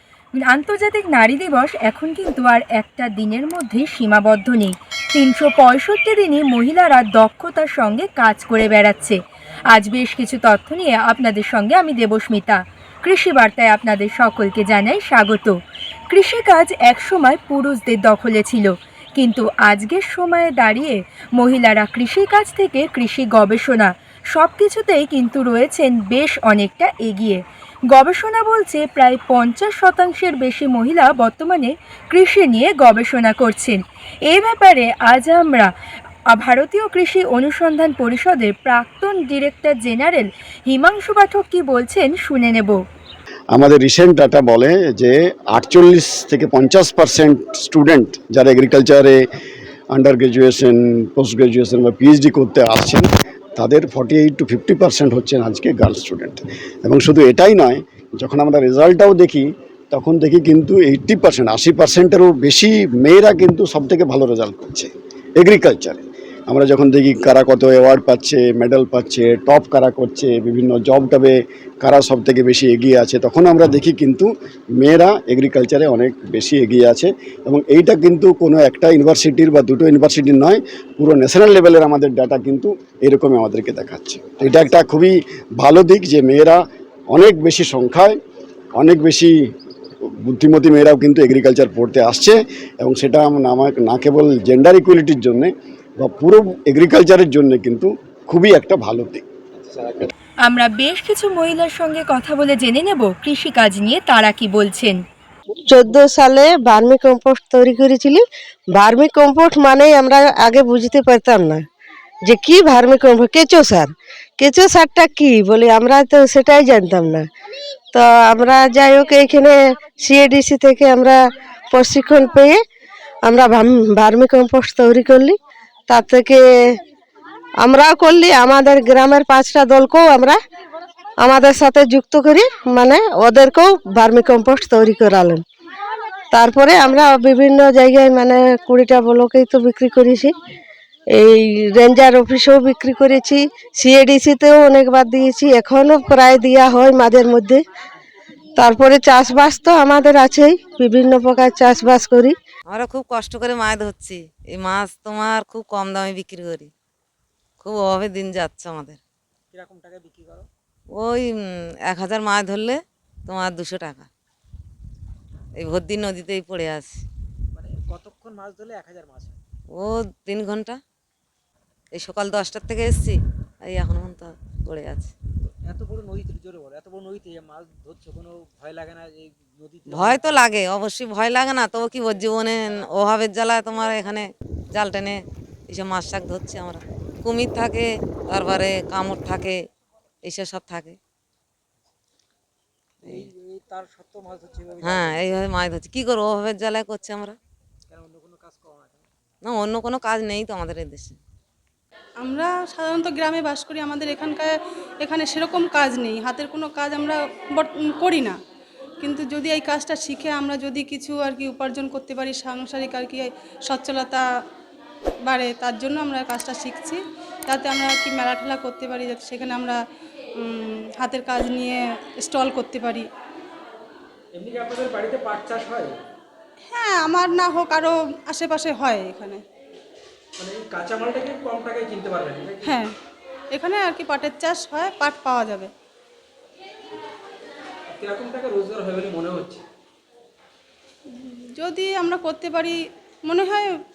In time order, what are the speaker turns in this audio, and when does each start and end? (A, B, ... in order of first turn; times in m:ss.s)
0:00.4-0:09.2 A
0:09.7-0:15.6 A
0:16.1-0:27.4 A
0:27.9-0:35.7 A
0:36.3-0:42.8 A
0:43.5-0:49.2 B
0:49.9-1:14.3 B
1:14.8-1:26.6 B
1:27.1-1:28.2 B
1:28.8-1:29.3 B
1:30.2-1:39.2 B
1:40.4-1:45.0 A
1:45.7-1:48.2 C
1:48.7-1:51.6 C
1:52.3-1:57.3 C
1:57.9-2:01.2 C
2:01.7-2:02.6 C
2:03.2-2:05.4 C
2:05.9-2:06.7 C
2:07.6-2:10.4 C
2:11.2-2:15.4 C
2:16.3-2:20.3 C
2:21.1-2:27.6 C
2:28.6-2:32.3 C
2:32.7-2:36.7 D
2:37.6-2:39.0 D
2:39.5-2:40.5 E
2:40.9-2:41.3 D
2:41.9-2:44.1 D
2:45.6-2:47.0 D
2:47.5-2:49.4 E
2:49.7-2:50.8 D
2:51.9-2:55.1 D
2:55.5-3:00.4 E
2:59.9-3:09.6 D
3:10.2-3:11.0 D
3:13.0-3:13.3 D
3:13.1-3:15.5 E
3:14.8-3:17.4 D
3:17.9-3:19.1 E
3:19.4-3:21.2 D
3:22.2-3:28.4 F
3:29.0-3:34.3 F
3:35.2-3:39.8 F
3:40.4-3:43.1 F
3:44.3-3:46.0 E
3:46.7-3:49.4 F
3:50.4-3:52.8 E
3:52.6-3:53.0 F
3:53.5-3:55.7 F
3:57.9-3:59.6 E
4:01.2-4:03.7 F